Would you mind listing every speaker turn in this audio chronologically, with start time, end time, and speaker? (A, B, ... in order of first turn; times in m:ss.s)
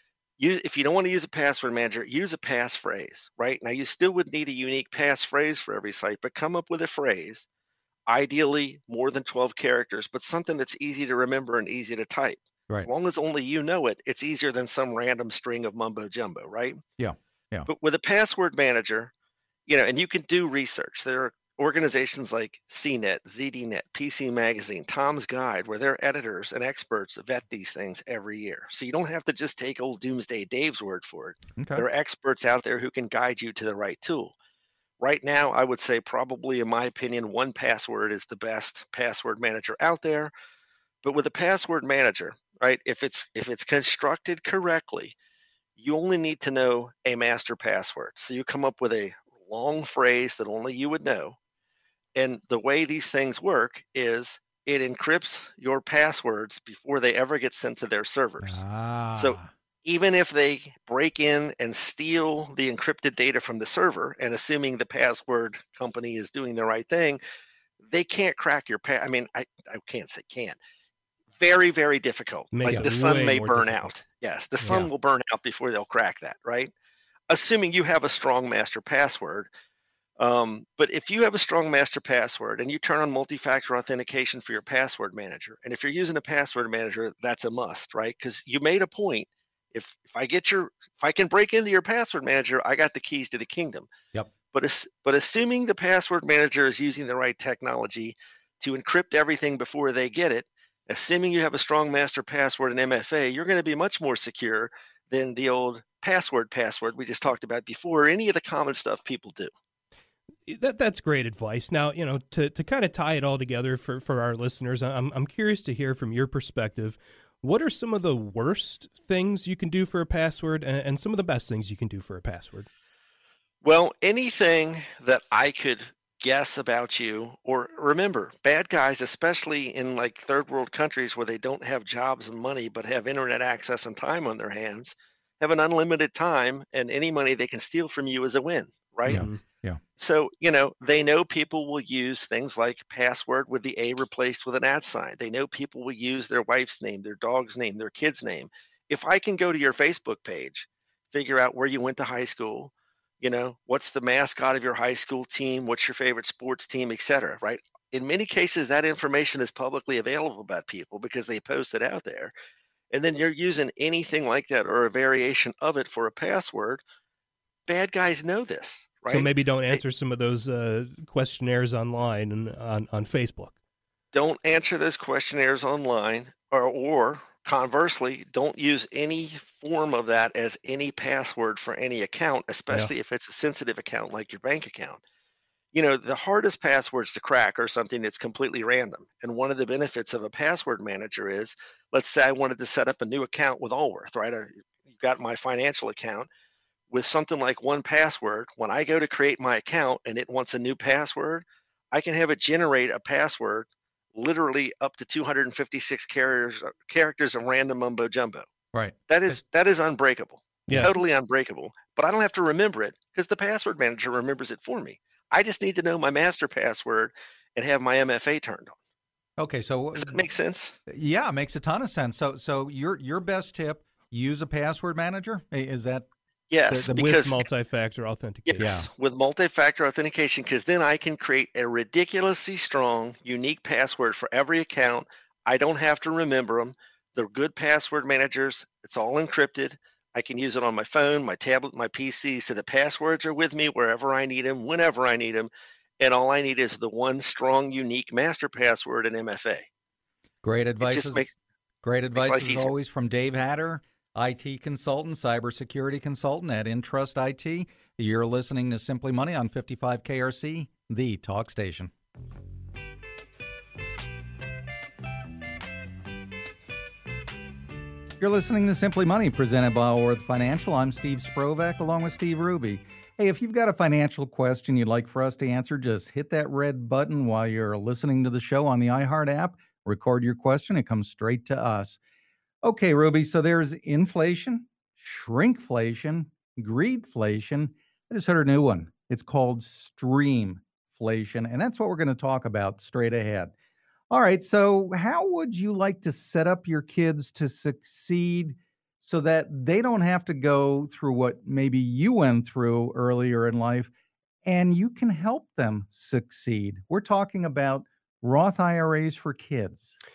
0:00.4-0:07.5 A
0:08.1-0:16.8 A
0:17.0-0:17.7 B
0:17.7-0:19.1 A
0:19.7-0:34.3 A
0:31.6-0:31.8 B
0:35.0-0:40.3 A
0:41.0-0:45.2 A
0:45.8-0:51.4 A
0:52.2-0:58.6 A
0:58.4-0:59.5 B
0:59.2-1:07.2 A
1:07.8-1:10.6 A
1:11.4-1:16.7 A
1:12.5-1:13.9 C
1:17.3-1:19.5 A
1:20.2-1:33.9 A
1:34.5-1:49.5 A
1:50.5-2:02.7 C
2:03.6-2:19.3 A
2:19.1-2:19.8 B
2:19.1-2:19.4 C
2:20.0-2:42.3 A
2:42.9-2:46.8 A
2:47.7-2:49.8 A
2:49.1-2:53.6 C
2:54.1-3:05.0 A
3:05.7-3:16.3 A
3:16.9-3:28.5 A
3:28.7-3:29.4 B
3:29.1-3:38.8 A
3:30.7-3:30.9 C
3:39.4-3:40.2 B
3:40.0-3:40.8 A
3:40.9-3:46.1 B
3:46.5-3:47.5 A
3:46.7-3:48.8 C
3:48.5-4:09.7 A
3:48.6-3:48.9 B
4:10.4-4:11.3 B
4:10.8-4:11.3 A
4:11.8-4:21.9 B
4:12.2-4:12.7 A
4:28.2-4:42.0 B
4:42.6-4:53.5 B
4:54.1-5:03.9 B
5:04.4-5:10.0 B